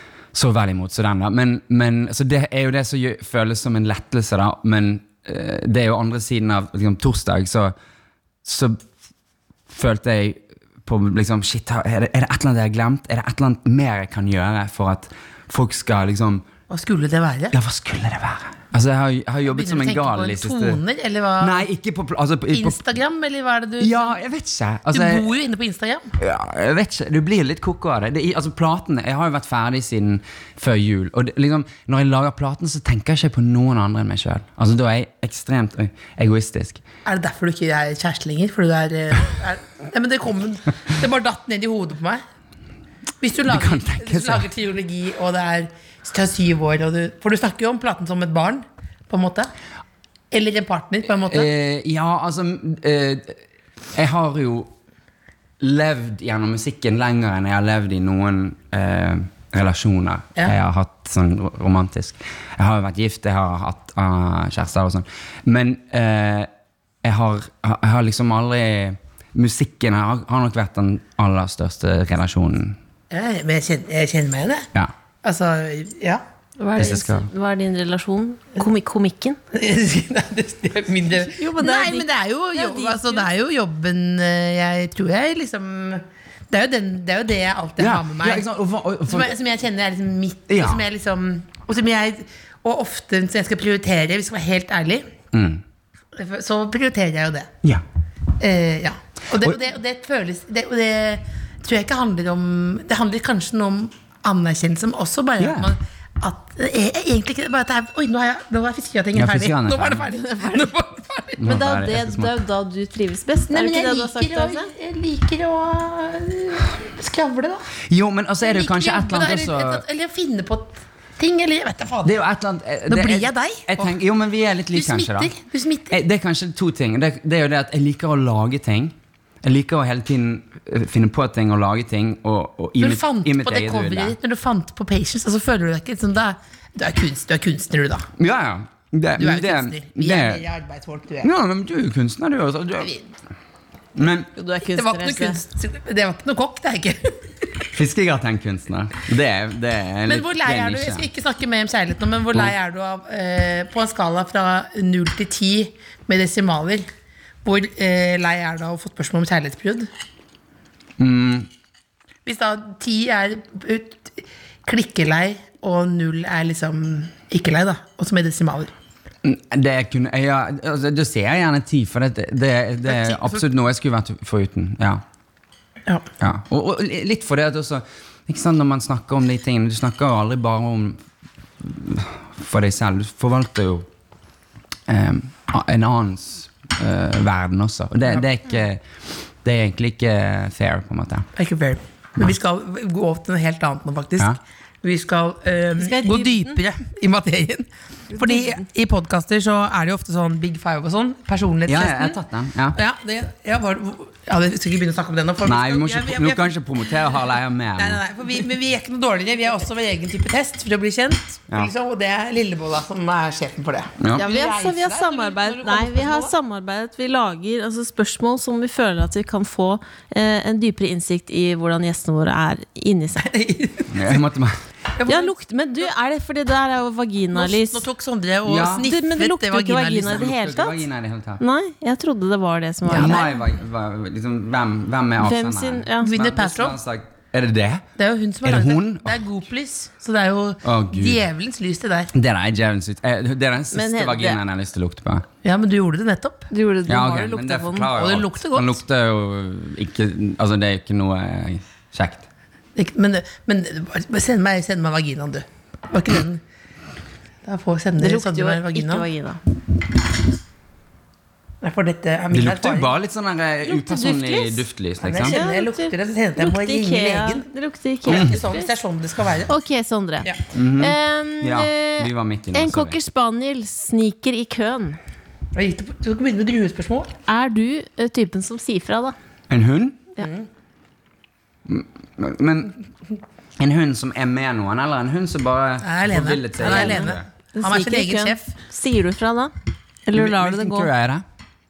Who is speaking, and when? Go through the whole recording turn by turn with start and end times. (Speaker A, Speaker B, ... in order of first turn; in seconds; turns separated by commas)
Speaker A: 0.3-7.7, Speaker A: 8.4-8.8, Speaker A: 9.7-16.4, Speaker B: 16.7-17.6, Speaker A: 17.5-20.8, Speaker B: 19.5-21.7, Speaker A: 21.4-22.9, Speaker B: 22.5-24.2, Speaker A: 23.8-25.3, Speaker B: 24.9-26.1, Speaker A: 26.2-36.8, Speaker B: 37.0-42.2, Speaker B: 43.2-49.5, Speaker A: 43.5-44.5, Speaker B: 50.3-51.5, Speaker A: 51.3-53.4, Speaker A: 53.9-54.7, Speaker A: 55.6-66.5, Speaker A: 67.0-72.8, Speaker B: 73.1-74.7, Speaker B: 75.2-76.2, Speaker C: 76.6-79.4, Speaker A: 76.8-77.3, Speaker B: 79.5-88.5, Speaker C: 81.2-83.3, Speaker A: 87.8-89.3, Speaker B: 89.1-95.1, Speaker A: 90.5-90.8, Speaker A: 95.3-95.6, Speaker B: 96.1-97.5, Speaker B: 98.4-111.4, Speaker A: 105.4-105.7, Speaker A: 109.2-110.1, Speaker A: 111.4-112.3, Speaker C: 111.4-114.7, Speaker B: 113.5-117.7, Speaker A: 117.9-119.8, Speaker B: 118.4-122.2, Speaker A: 122.0-125.3, Speaker B: 122.9-123.9, Speaker B: 124.7-126.0, Speaker A: 125.9-134.2, Speaker B: 132.8-138.1, Speaker A: 138.2-140.4, Speaker B: 139.2-141.3, Speaker A: 141.2-142.9, Speaker A: 144.0-144.3, Speaker C: 144.4-145.4, Speaker B: 144.7-147.7, Speaker A: 147.7-151.1, Speaker B: 150.1-156.9, Speaker B: 157.4-159.9, Speaker A: 161.0-161.5, Speaker B: 162.2-168.7, Speaker A: 169.2-175.0, Speaker B: 172.9-173.4, Speaker A: 176.2-181.0, Speaker A: 181.6-183.9, Speaker A: 184.9-188.8, Speaker A: 189.4-191.3, Speaker B: 191.4-202.2, Speaker C: 195.8-196.6, Speaker C: 198.1-198.6, Speaker A: 201.7-202.8, Speaker B: 202.8-206.5, Speaker A: 205.4-208.0, Speaker B: 207.8-216.3, Speaker C: 214.2-223.3, Speaker B: 223.2-224.2, Speaker A: 223.9-224.6, Speaker B: 224.9-225.3, Speaker C: 225.1-227.8, Speaker B: 227.3-230.3, Speaker A: 228.5-228.9, Speaker C: 228.8-230.8, Speaker A: 230.0-231.4, Speaker C: 231.4-233.3, Speaker B: 232.9-233.3, Speaker A: 232.9-237.8, Speaker C: 235.2-236.1, Speaker B: 236.0-236.8, Speaker B: 238.0-242.1, Speaker A: 238.4-239.3, Speaker A: 240.6-241.2, Speaker A: 242.1-245.3, Speaker C: 243.7-244.4, Speaker B: 245.4-246.5, Speaker C: 246.5-247.9, Speaker A: 246.9-252.3, Speaker B: 247.9-248.8, Speaker B: 252.8-256.4, Speaker B: 257.4-259.1, Speaker C: 258.0-259.4, Speaker B: 261.6-262.9, Speaker A: 262.3-265.4, Speaker C: 263.7-264.6, Speaker B: 265.0-267.5, Speaker C: 265.2-268.7, Speaker B: 268.1-269.5, Speaker A: 268.1-268.4, Speaker C: 269.5-275.0, Speaker A: 270.5-273.0, Speaker B: 275.5-277.2, Speaker C: 277.3-279.1, Speaker A: 279.5-280.0, Speaker B: 280.2-280.5, Speaker A: 281.7-282.8, Speaker A: 283.6-287.3, Speaker B: 285.8-288.5, Speaker C: 286.6-289.5, Speaker C: 290.1-290.9, Speaker A: 290.1-291.2